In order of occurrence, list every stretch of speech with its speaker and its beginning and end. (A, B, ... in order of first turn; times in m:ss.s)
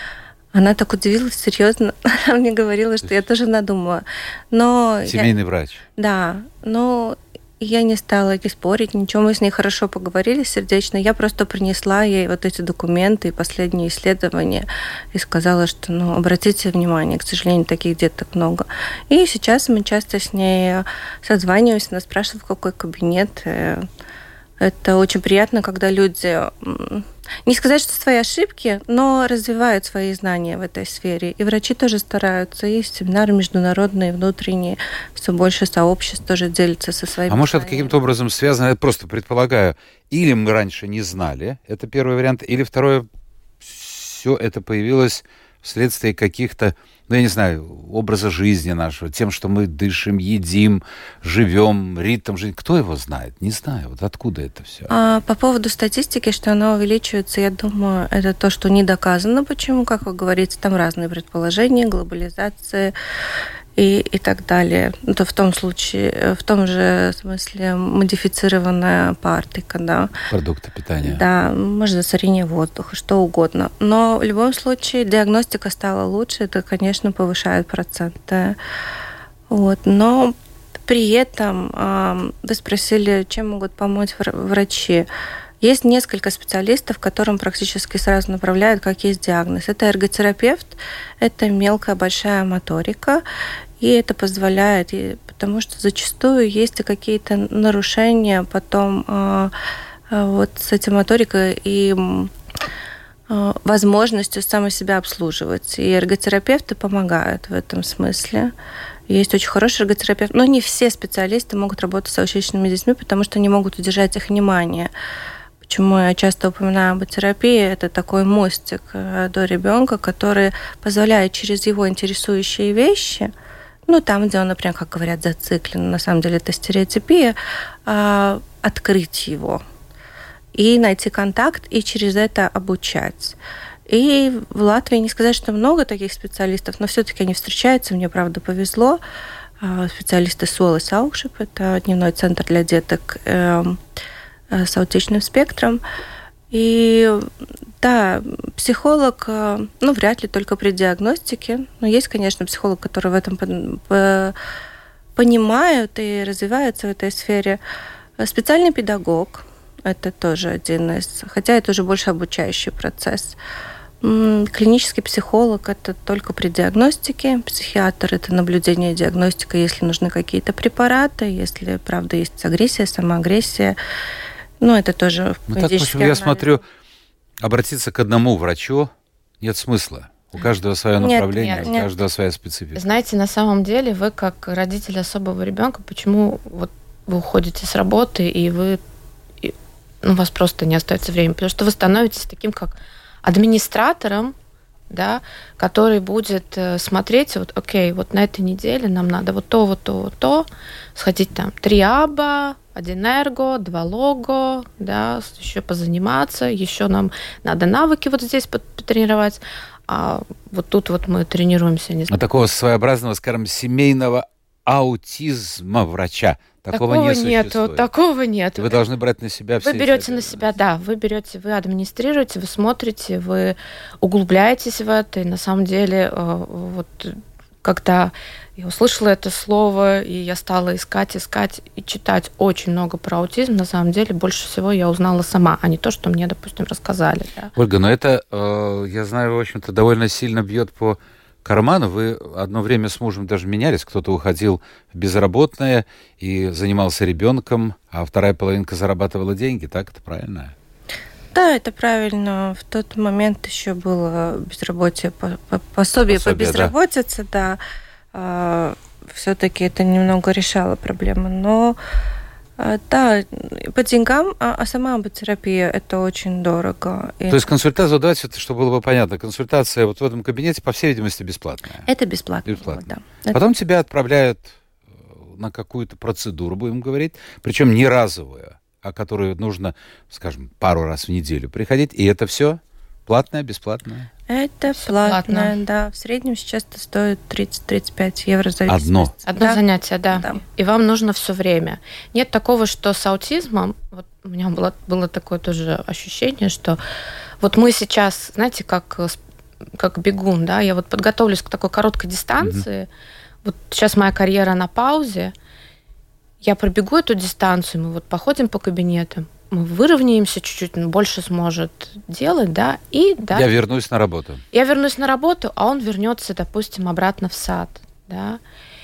0:00.5-0:05.3 A
0:05.0-0:05.8 B
0:06.0-0:23.9 A
0:24.6-0:38.0 A
0:37.3-0:43.0 B
0:43.6-0:54.9 B
0:54.9-1:02.9 A
1:03.8-1:10.1 A
1:10.3-1:11.2 B
1:11.0-1:18.6 A
1:19.5-1:25.1 A
1:25.6-1:33.2 A
1:33.8-1:39.5 A
1:40.1-1:42.3 A
1:43.3-1:48.5 A
1:49.1-1:54.9 A
1:55.6-2:03.3 A
2:03.9-2:09.6 A
2:10.5-2:13.4 A
2:13.9-2:19.0 A
2:19.6-2:23.8 A
2:24.5-2:25.8 A
2:26.5-2:27.3 A
2:27.8-2:34.4 A
2:35.2-2:37.6 A
2:38.2-2:43.4 A
2:44.0-2:53.8 A
2:54.6-2:56.6 A
2:55.5-2:56.6 B
2:57.4-3:02.8 B
3:01.0-3:01.9 A
3:01.3-3:01.7 C
3:02.7-3:08.8 C
3:09.4-3:14.3 C
3:14.9-3:32.2 C
3:32.1-3:37.9 B
3:36.7-3:38.8 C
3:38.6-3:40.5 B
3:39.6-3:57.5 C
3:57.6-4:10.5 B
4:11.3-4:17.6 A
4:16.1-4:16.7 B
4:18.1-4:21.8 A
4:22.6-4:27.4 A
4:27.3-4:31.9 B
4:31.8-4:33.4 A
4:32.4-4:44.1 B
4:44.3-4:50.4 A
4:44.7-4:45.6 C
4:48.7-4:49.1 B
4:49.2-4:56.8 C
4:57.4-4:59.2 C
4:59.7-5:02.9 C
5:02.4-5:02.6 B
5:03.4-5:05.3 C
5:06.4-5:13.5 C
5:13.3-5:14.4 B
5:14.5-5:18.4 C